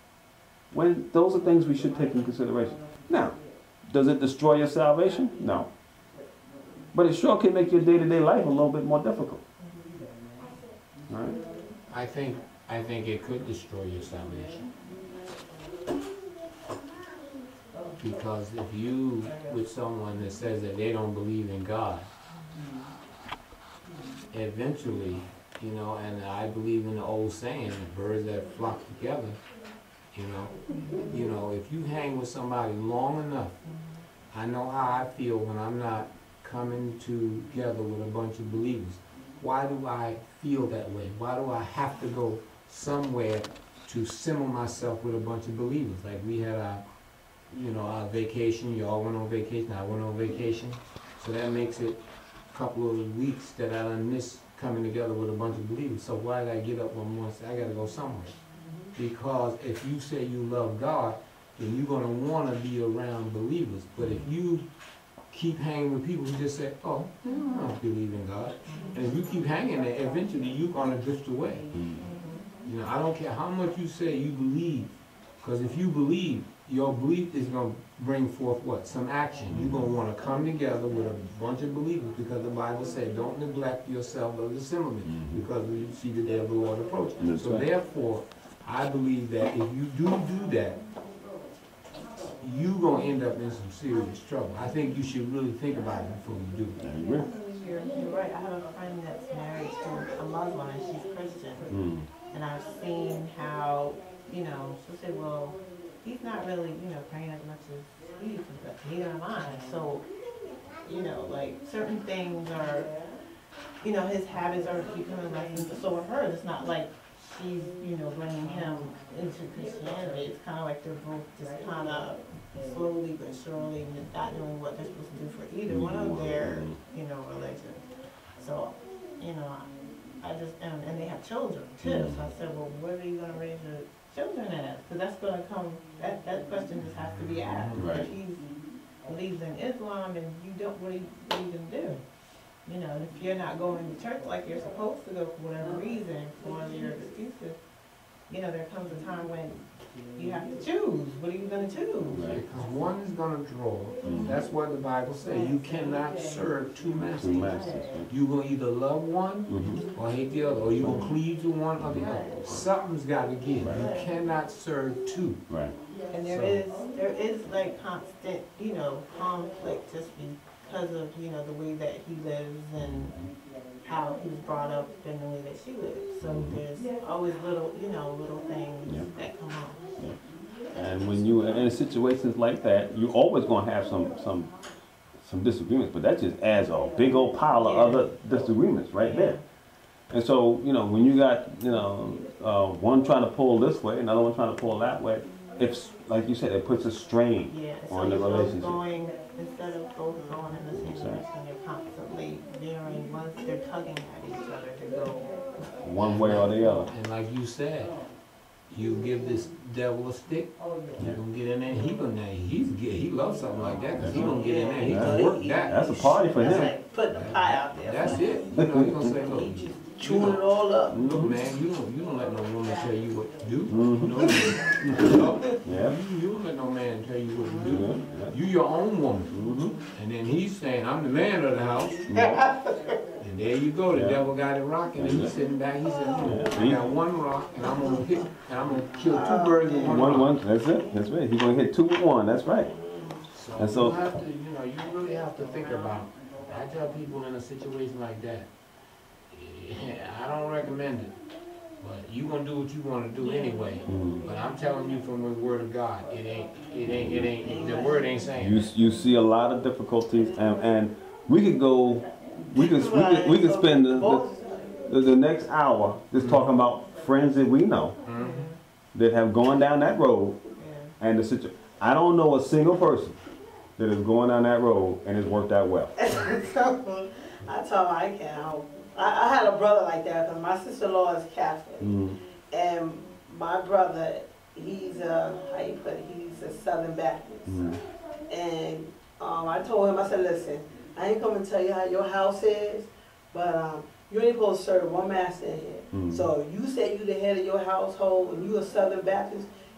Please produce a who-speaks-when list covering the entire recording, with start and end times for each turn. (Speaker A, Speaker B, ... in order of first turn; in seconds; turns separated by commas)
Speaker A: 0.7-5.7, Speaker A: 6.9-9.4, Speaker A: 11.1-11.4, Speaker B: 11.9-14.7, Speaker B: 18.0-22.1, Speaker B: 24.3-29.4, Speaker B: 30.1-33.6, Speaker B: 34.3-46.8, Speaker B: 47.5-58.4, Speaker B: 59.0-64.7, Speaker B: 65.3-71.7, Speaker C: 67.3-67.6, Speaker C: 68.7-69.0, Speaker A: 71.7-72.1, Speaker C: 72.1-72.5, Speaker B: 72.7-74.9, Speaker B: 75.4-90.8, Speaker A: 79.5-79.8, Speaker A: 85.0-85.4, Speaker A: 87.2-87.7, Speaker B: 92.4-96.8, Speaker A: 96.8-97.3, Speaker C: 97.2-101.7, Speaker A: 101.7-102.1, Speaker C: 102.3-110.1, Speaker C: 110.8-112.9, Speaker C: 113.8-127.8, Speaker A: 125.7-126.8, Speaker C: 128.4-129.7, Speaker C: 130.2-138.4, Speaker A: 131.8-132.3, Speaker B: 137.5-137.9, Speaker A: 137.8-138.1, Speaker C: 139.1-142.0, Speaker C: 142.7-147.6, Speaker C: 148.3-149.6, Speaker C: 150.1-152.2, Speaker A: 152.1-152.4, Speaker B: 152.2-165.4, Speaker A: 154.0-154.4, Speaker A: 157.2-158.1, Speaker A: 159.5-159.9, Speaker A: 160.8-161.1, Speaker A: 161.8-162.7, Speaker C: 162.0-162.4, Speaker A: 163.6-163.9, Speaker C: 163.7-164.1, Speaker A: 165.5-165.8, Speaker C: 166.1-173.2, Speaker B: 166.3-166.6, Speaker A: 172.8-173.3, Speaker C: 173.8-179.9, Speaker A: 176.2-176.6, Speaker A: 180.7-184.5, Speaker A: 185.2-189.4, Speaker C: 187.7-188.0, Speaker C: 189.0-189.4, Speaker A: 190.1-198.8, Speaker C: 197.5-205.4, Speaker A: 200.7-201.2, Speaker A: 205.8-206.9, Speaker B: 206.0-208.0, Speaker B: 208.7-215.9, Speaker A: 214.0-214.3, Speaker D: 214.0-221.2, Speaker A: 214.8-216.7, Speaker B: 217.1-220.4, Speaker A: 218.5-219.2, Speaker A: 220.9-221.4, Speaker B: 220.9-229.3, Speaker A: 223.7-226.0, Speaker D: 224.4-224.7, Speaker C: 227.5-227.8, Speaker A: 227.6-228.3, Speaker A: 229.3-229.8, Speaker B: 229.9-232.1, Speaker A: 232.1-232.4, Speaker D: 232.1-233.0, Speaker B: 233.2-240.3, Speaker A: 233.9-234.3, Speaker A: 235.0-235.3, Speaker A: 236.2-236.9, Speaker D: 239.1-240.0, Speaker A: 239.8-242.8, Speaker D: 242.8-243.2, Speaker B: 243.3-248.5, Speaker A: 243.6-244.0, Speaker B: 249.3-251.2, Speaker B: 251.8-258.7, Speaker A: 253.9-254.2, Speaker A: 256.8-257.3, Speaker D: 257.4-258.3, Speaker A: 258.4-264.3, Speaker D: 262.4-264.8, Speaker A: 264.9-268.0, Speaker B: 266.2-266.5, Speaker B: 268.1-268.5, Speaker C: 268.2-268.6, Speaker A: 268.9-270.4, Speaker C: 270.6-270.9, Speaker A: 271.0-273.2, Speaker A: 273.8-276.0, Speaker D: 276.0-282.0, Speaker A: 281.8-282.2, Speaker D: 282.5-299.5, Speaker A: 287.5-287.8, Speaker A: 295.9-296.3